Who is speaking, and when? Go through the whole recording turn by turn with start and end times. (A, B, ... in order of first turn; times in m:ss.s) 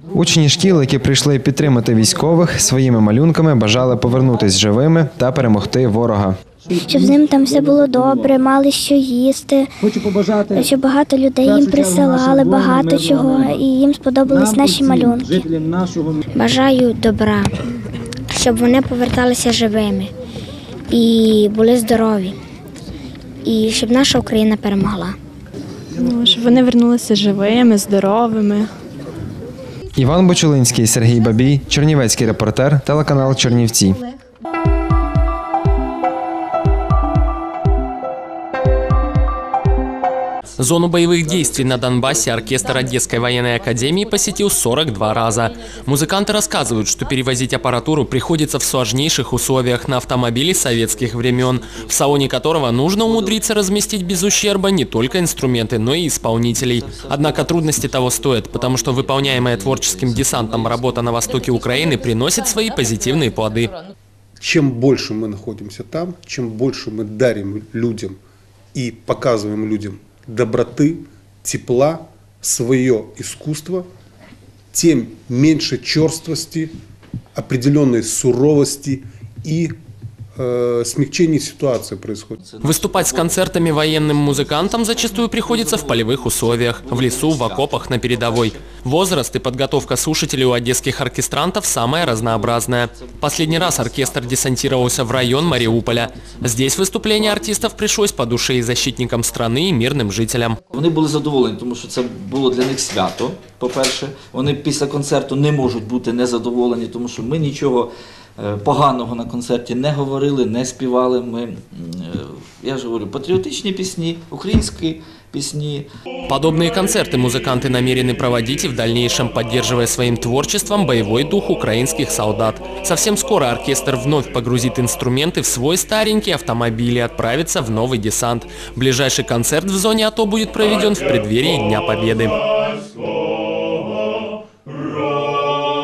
0:00.2-0:06.4 A
0:06.8-0:09.7 B
0:10.5-0:15.4 B
0:16.4-0:17.5 B
0:18.4-0:20.1 B
0:20.9-0:22.4 B
0:23.5-0:25.2 B
0:26.0-0:28.7 C
0:30.0-0:34.0 A
0:40.6-1:03.7 D
0:56.9-0:57.4 E
0:59.9-1:00.6 E
1:04.4-1:08.2 F
1:08.7-1:13.9 F
1:14.7-1:16.7 F
1:17.4-1:19.8 F
1:20.4-1:22.4 F
1:22.4-1:28.6 E
1:22.6-1:40.6 D
1:32.0-1:37.6 E
1:40.7-1:55.9 E
1:56.3-2:12.4 D